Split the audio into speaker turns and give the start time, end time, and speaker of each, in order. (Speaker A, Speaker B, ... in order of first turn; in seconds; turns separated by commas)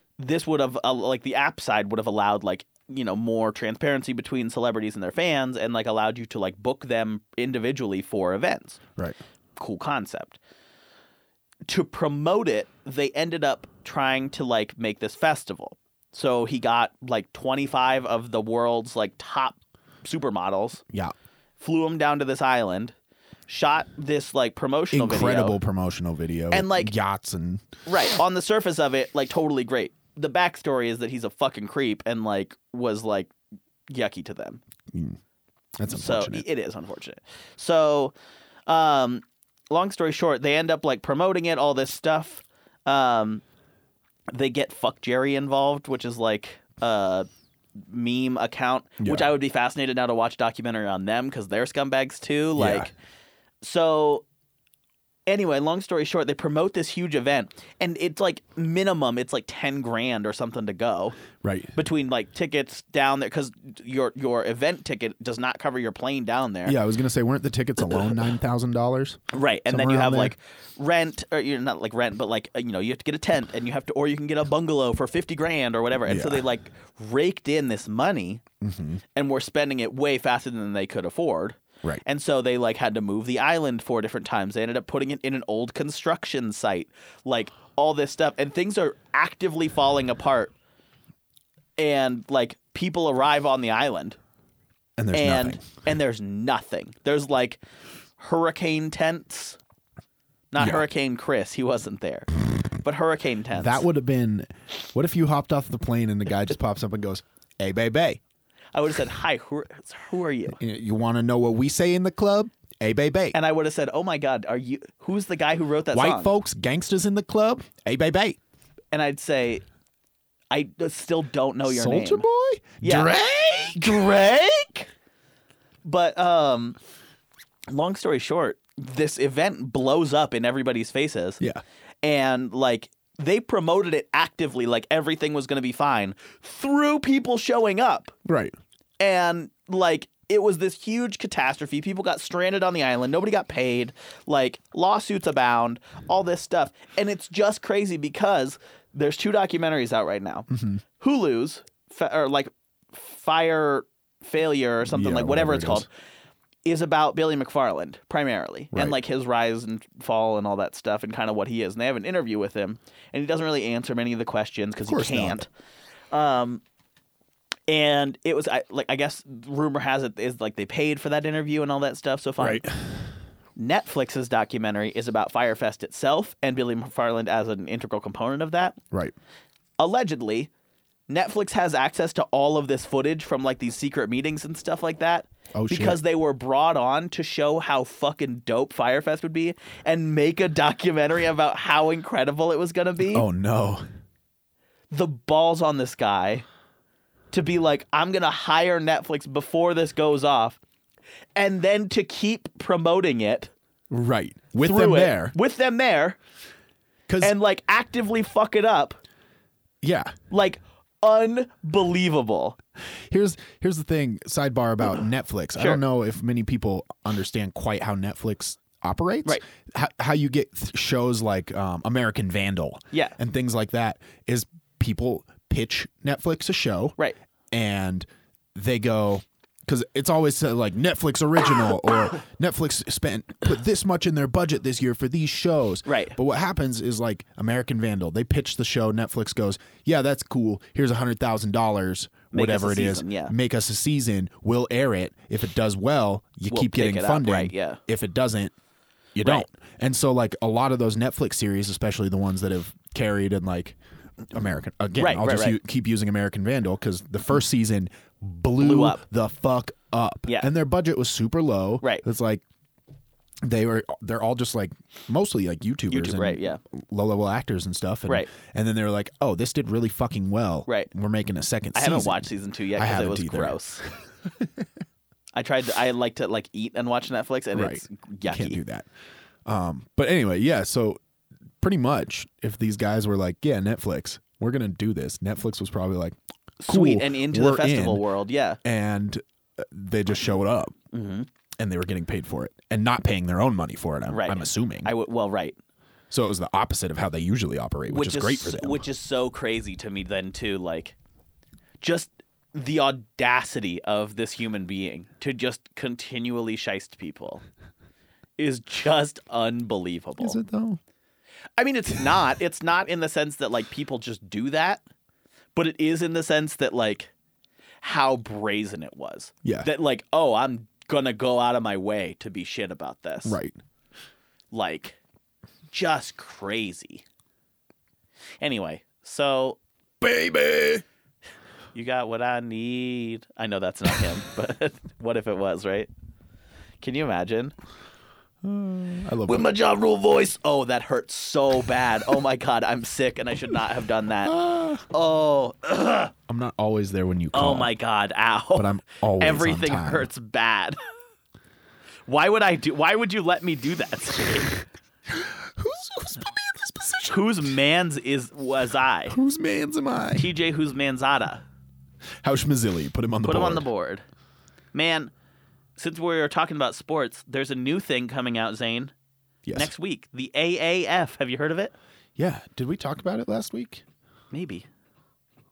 Speaker A: 0.2-8.8, Speaker A: 9.6-10.4, Speaker A: 11.7-20.8, Speaker A: 21.6-22.9, Speaker A: 23.5-25.6, Speaker B: 24.9-27.7, Speaker A: 26.5-26.9, Speaker A: 27.9-33.3, Speaker A: 33.9-34.6, Speaker B: 34.9-35.2, Speaker B: 35.8-36.5, Speaker A: 35.9-38.1, Speaker A: 38.7-43.4, Speaker A: 44.3-47.3, Speaker A: 47.8-52.9, Speaker B: 49.0-49.3, Speaker B: 52.6-52.9, Speaker A: 53.6-54.2, Speaker A: 55.3-61.2, Speaker B: 61.4-61.8, Speaker A: 61.8-66.8, Speaker B: 66.7-70.3, Speaker A: 69.3-78.4, Speaker B: 76.1-76.4, Speaker B: 78.6-79.0, Speaker A: 79.2-90.5, Speaker A: 91.8-94.2, Speaker B: 95.0-95.6, Speaker A: 95.1-97.6, Speaker A: 98.2-99.6, Speaker A: 100.5-102.3, Speaker B: 100.6-100.8, Speaker A: 102.8-103.9, Speaker B: 103.5-108.2, Speaker A: 108.8-110.6, Speaker B: 110.6-113.4, Speaker A: 113.3-116.3, Speaker B: 115.9-118.4, Speaker A: 118.9-119.6, Speaker A: 120.5-122.3, Speaker B: 121.7-124.0, Speaker A: 122.8-123.1, Speaker A: 123.8-124.9, Speaker A: 125.8-126.8, Speaker A: 127.7-131.4, Speaker A: 132.0-138.2, Speaker B: 138.2-138.5, Speaker A: 139.0-155.9, Speaker B: 150.5-150.8, Speaker B: 154.9-155.9, Speaker A: 156.7-165.5, Speaker B: 158.7-159.0, Speaker B: 164.9-165.4, Speaker A: 166.1-166.6, Speaker A: 167.7-172.7, Speaker B: 172.4-173.1, Speaker A: 173.6-178.8, Speaker A: 179.8-180.5, Speaker A: 181.1-193.3, Speaker B: 185.5-186.0, Speaker B: 193.1-193.8, Speaker A: 194.9-196.4, Speaker A: 197.3-200.6, Speaker A: 201.4-203.5, Speaker B: 203.9-205.3, Speaker A: 204.5-206.2, Speaker B: 207.1-207.3, Speaker A: 207.2-209.0, Speaker B: 209.8-210.2, Speaker A: 210.3-212.6, Speaker B: 212.9-227.0, Speaker B: 227.5-248.5, Speaker A: 235.9-236.2, Speaker A: 242.3-243.3, Speaker A: 246.5-247.8, Speaker B: 249.2-253.8, Speaker B: 254.3-262.4, Speaker A: 255.0-255.6, Speaker A: 258.6-259.0, Speaker B: 263.4-274.5, Speaker A: 265.9-266.6, Speaker A: 271.8-273.8, Speaker A: 275.4-278.6, Speaker B: 277.5-278.9, Speaker B: 279.4-281.0, Speaker B: 281.6-288.1, Speaker A: 286.6-288.6, Speaker B: 288.6-290.7, Speaker A: 290.9-291.3, Speaker B: 291.6-294.9, Speaker A: 294.1-295.6, Speaker B: 296.1-298.9, Speaker A: 297.9-301.0, Speaker A: 301.8-307.4, Speaker A: 308.4-310.4, Speaker B: 310.2-310.8, Speaker A: 311.6-314.8, Speaker A: 315.6-317.1, Speaker A: 317.8-323.4, Speaker B: 323.2-323.6, Speaker A: 324.5-325.0, Speaker A: 325.7-327.0, Speaker A: 328.4-329.6, Speaker B: 330.0-330.8, Speaker A: 331.7-335.9, Speaker A: 336.8-337.6, Speaker B: 338.4-339.5, Speaker A: 339.2-346.1, Speaker B: 344.2-344.9, Speaker B: 346.3-347.8, Speaker A: 347.3-350.8, Speaker B: 348.6-350.1, Speaker A: 352.1-354.6, Speaker B: 355.1-357.5, Speaker A: 357.1-359.2, Speaker B: 359.1-360.3, Speaker A: 360.1-361.4, Speaker B: 362.2-363.7, Speaker A: 363.2-364.0, Speaker A: 364.7-365.1, Speaker A: 365.8-368.9, Speaker B: 369.4-369.7, Speaker A: 369.5-371.7, Speaker B: 372.2-373.8, Speaker A: 374.3-374.7